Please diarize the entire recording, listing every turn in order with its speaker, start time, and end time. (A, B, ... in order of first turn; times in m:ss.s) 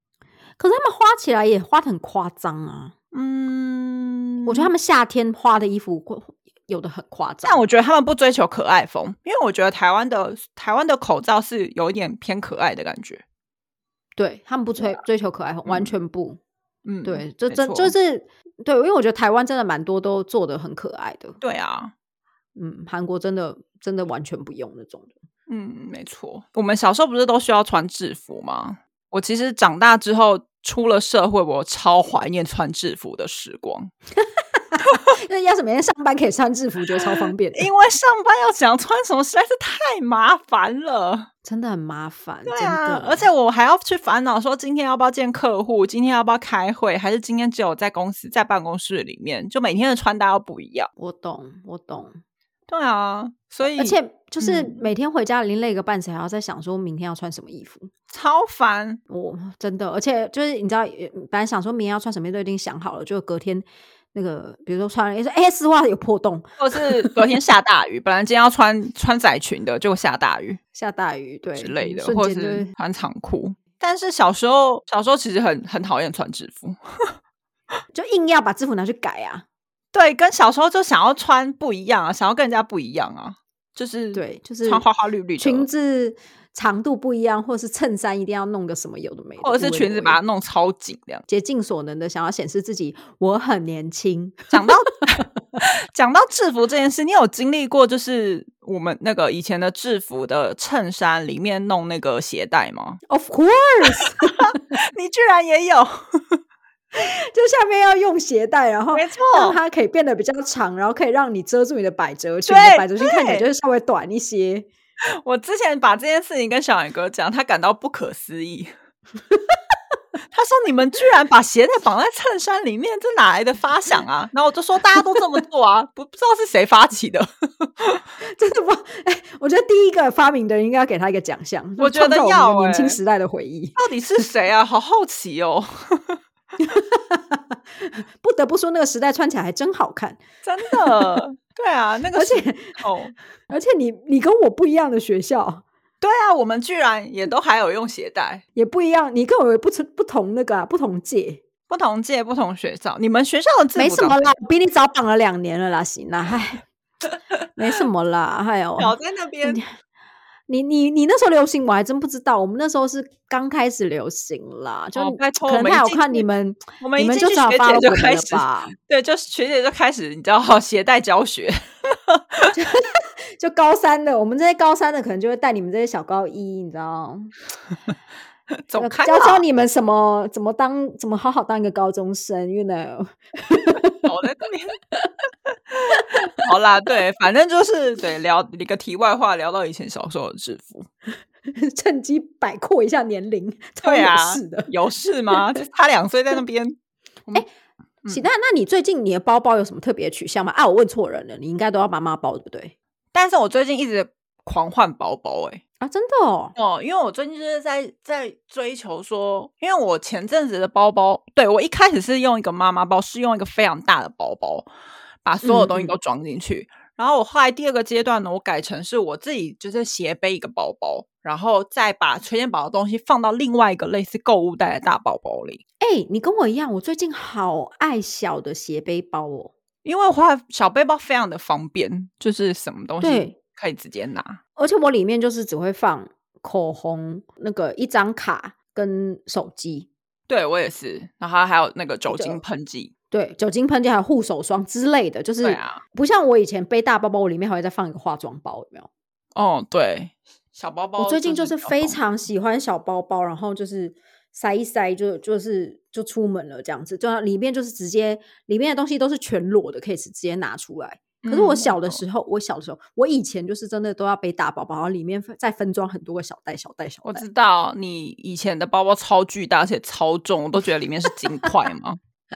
0:00.6-0:03.0 A
0:03.1-0:04.7 B
0:04.4-0:07.6 A
0:07.4-0:13.2 B
0:14.2-0:16.4 A
0:15.7-0:15.9 B
0:16.8-0:17.9 B
0:17.0-0:21.4 A
0:21.4-0:21.9 B
0:22.6-0:25.2 A
0:25.5-0:33.9 B
0:34.2-0:37.7 A
0:37.6-0:41.3 B
0:41.4-0:43.3 A
0:42.5-0:50.9 B
0:51.0-0:52.2 A
0:52.7-0:54.8 B
0:53.6-0:57.9 A
0:58.1-0:59.0 B
0:59.1-1:07.1 A
1:06.6-1:10.6 B
1:10.7-1:12.7 A
1:11.6-1:17.1 B
1:17.9-1:19.4 A
1:19.9-1:25.7 B
1:24.1-1:24.8 A
1:25.4-1:30.2 A
1:29.4-1:31.3 B
1:31.3-1:35.3 A
1:34.5-1:43.0 B
1:43.1-1:44.6 A
1:43.9-1:46.4 B
1:47.0-1:54.7 A
1:48.9-1:49.6 B
1:52.5-1:53.4 B
1:55.1-1:58.7 B
1:59.3-1:59.6 A
2:00.3-2:08.0 B
2:08.3-2:13.8 A
2:11.8-2:13.0 B
2:13.8-2:16.2 B
2:16.6-2:21.2 A
2:20.4-2:23.1 B
2:22.1-2:22.8 A
2:23.5-2:25.6 A
2:26.0-2:28.4 B
2:28.6-2:31.4 A
2:31.7-2:34.2 B
2:33.8-2:36.7 A
2:37.6-2:39.7 A
2:38.8-2:39.6 B
2:40.5-2:48.8 A
2:45.0-2:46.3 B
2:46.8-2:52.5 B
2:52.5-2:57.4 A
2:58.7-2:59.4 B
2:58.8-3:04.1 A
3:04.0-3:04.8 B
3:05.5-3:10.9 B
3:05.9-3:06.4 A
3:11.6-3:14.7 A
3:13.8-3:17.4 B
3:15.3-3:15.6 A
3:18.1-3:22.8 A
3:23.1-3:25.6 B
3:25.8-3:26.6 A
3:26.6-3:34.7 B
3:35.2-3:45.6 B
3:35.4-3:35.9 A
3:45.8-3:49.5 A
3:49.8-3:54.4 B
3:53.0-3:53.4 A
3:54.6-3:59.9 A
4:00.3-4:02.9 B
4:02.1-4:02.4 A
4:03.1-4:08.9 A
4:05.4-4:05.8 B
4:09.4-4:12.0 B
4:11.0-4:27.2 A
4:21.2-4:22.0 B
4:27.0-4:32.0 B